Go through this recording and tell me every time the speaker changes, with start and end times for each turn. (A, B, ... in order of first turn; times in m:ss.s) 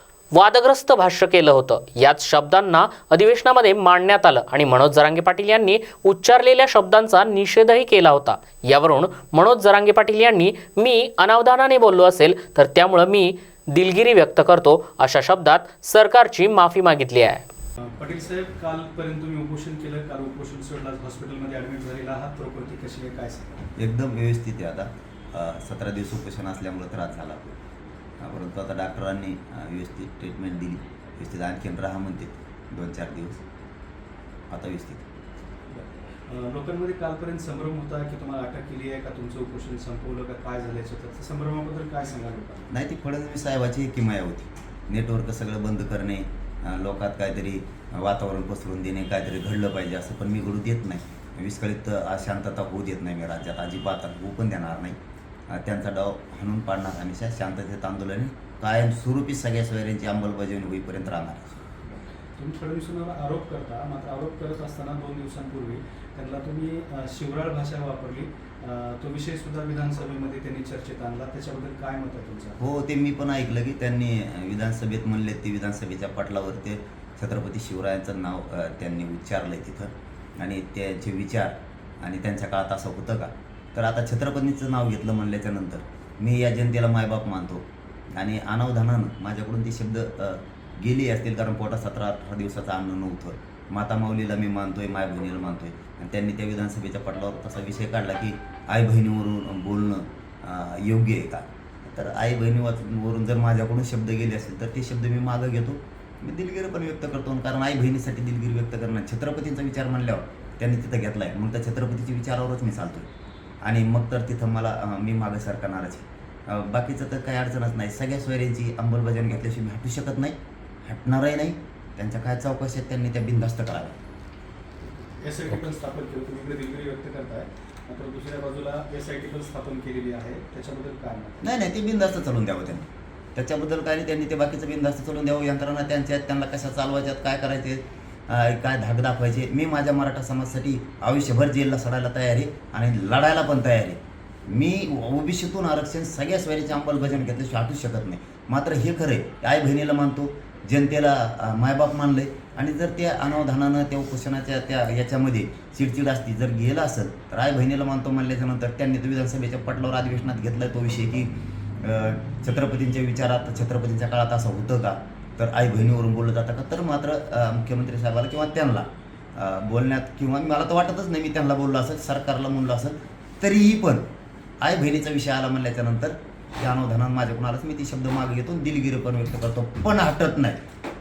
0:00.3-0:17.4 A
0:18.0-0:23.6 B
0:23.8-0:27.6 C
0:28.2-0:33.4 C
0:34.5-0:35.0 C
0:35.7-0:42.7 B
0:42.7-0:55.0 C
0:55.5-1:01.5 C
1:02.4-1:12.6 B
1:12.6-1:53.1 C
1:53.6-2:04.0 C
2:04.8-2:11.4 B
2:11.4-2:54.0 C
2:54.6-3:00.6 C